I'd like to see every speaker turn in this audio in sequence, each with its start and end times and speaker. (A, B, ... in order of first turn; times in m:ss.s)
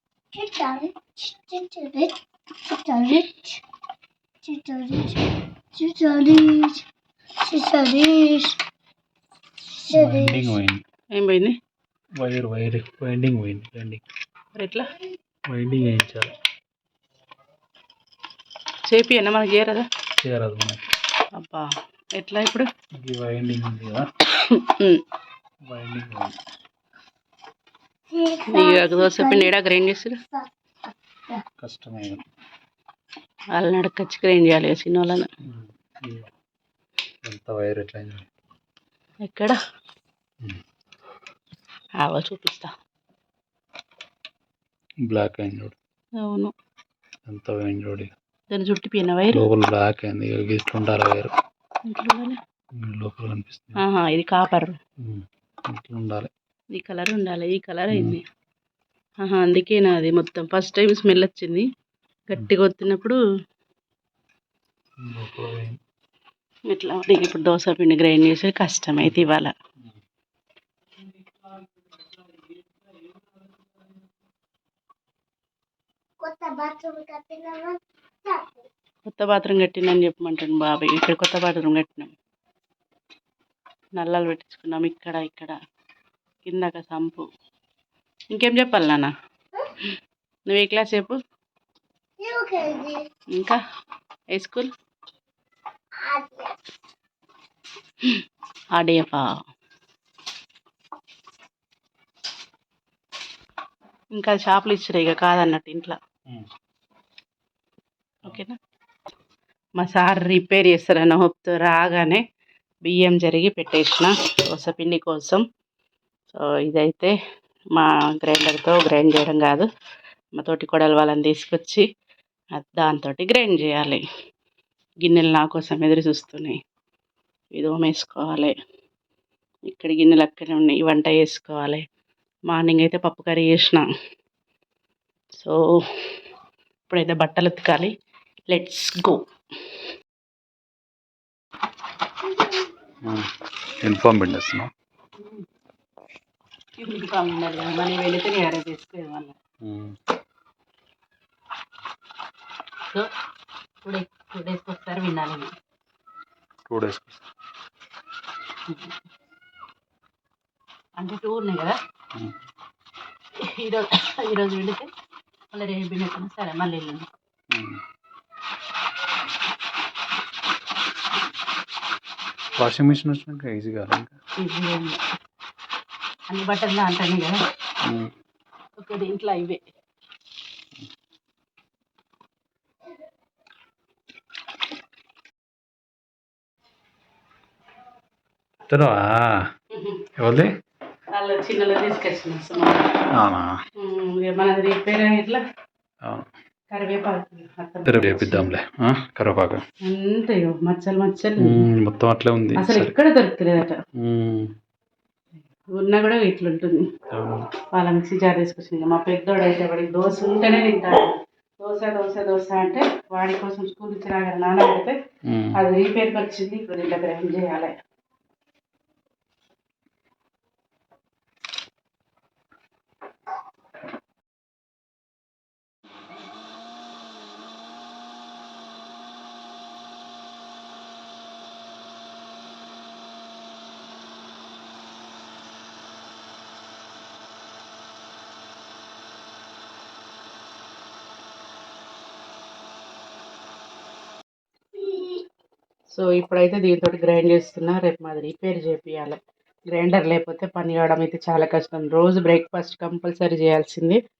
0:00.3-0:03.6 A
0:04.4-0:06.8 A
0:07.4-0:08.6 A
0:09.8-0:10.5 A
0:09.9-0:10.8 B
0:11.1-0:11.5 C
0:12.2-0:14.0 B
0:14.5-0:14.9 C
0:15.5-0:16.3 B
0:18.9-0:19.8 C
0:20.2-0:20.8 B
0:21.4-0:22.7 C
0:23.0-0:24.1 B
0:24.3-0:25.0 C
0:25.7-0:26.4 B
0:28.1-0:29.5 A
0:28.5-0:30.2 C
0:31.6-0:32.2 B
0:33.5-0:35.3 C
0:35.4-0:36.3 B
0:37.2-0:38.3 B
0:39.2-0:39.6 C
0:42.0-0:42.7 C
0:45.1-0:45.8 B
0:46.2-0:46.5 C
0:47.3-0:48.1 B
0:48.5-0:49.4 C
0:49.3-0:51.3 B
0:51.9-0:52.4 C
0:52.8-0:53.8 B
0:53.8-0:54.8 C
0:55.0-0:56.3 B
0:56.7-0:58.2 C
0:57.9-0:58.2 B
0:59.2-1:01.7 C
1:02.3-1:03.2 C
1:05.0-1:05.8 B
1:06.7-1:09.5 C
1:16.2-1:18.6 A
1:19.0-1:22.1 C
1:24.0-1:25.6 C
1:26.4-1:27.2 C
1:28.3-1:29.1 C
1:30.5-1:31.2 C
1:32.2-1:33.1 A
1:33.3-1:33.6 C
1:34.3-1:34.7 C
1:36.0-1:36.6 A
1:38.7-1:39.4 C
1:44.1-1:46.0 C
1:48.2-1:48.6 C
1:49.8-1:52.2 C
1:52.8-1:55.4 C
1:56.3-1:57.2 C
1:57.7-1:59.7 C
2:00.4-2:01.8 C
2:02.5-2:04.0 C
2:05.0-2:06.6 C
2:07.5-2:08.5 C
2:09.7-2:11.8 C
2:12.5-2:13.8 C
2:15.4-2:16.0 C
2:16.9-2:17.9 C
2:18.5-2:19.3 C
2:23.0-2:23.3 B
2:23.8-2:24.7 B
2:25.2-2:25.4 C
2:26.8-2:29.4 C
2:29.6-2:30.0 B
2:33.8-2:35.5 C
2:36.6-2:37.2 B
2:38.7-2:38.9 C
2:41.0-2:41.8 C
2:43.4-2:44.9 C
2:45.5-2:47.1 C
2:47.5-2:47.8 B
2:52.6-2:54.2 B
2:54.4-2:55.0 C
2:56.3-2:57.4 C
2:57.8-2:58.1 B
2:58.8-2:59.6 C
3:08.7-3:09.5 B
3:09.7-3:10.1 C
3:10.2-3:10.5 B
3:11.1-3:12.9 C
3:13.1-3:13.6 B
3:13.8-3:15.4 C
3:16.0-3:16.3 B
3:16.7-3:18.5 C
3:17.8-3:19.6 B
3:19.8-3:21.6 C
3:21.4-3:22.9 B
3:22.6-3:23.8 C
3:23.9-3:24.5 B
3:25.7-3:26.8 C
3:27.1-3:27.5 B
3:27.7-3:35.0 C
3:35.2-3:35.6 B
3:35.5-3:37.7 C
4:04.8-4:05.2 C
4:05.9-4:09.2 C
4:09.7-4:14.0 C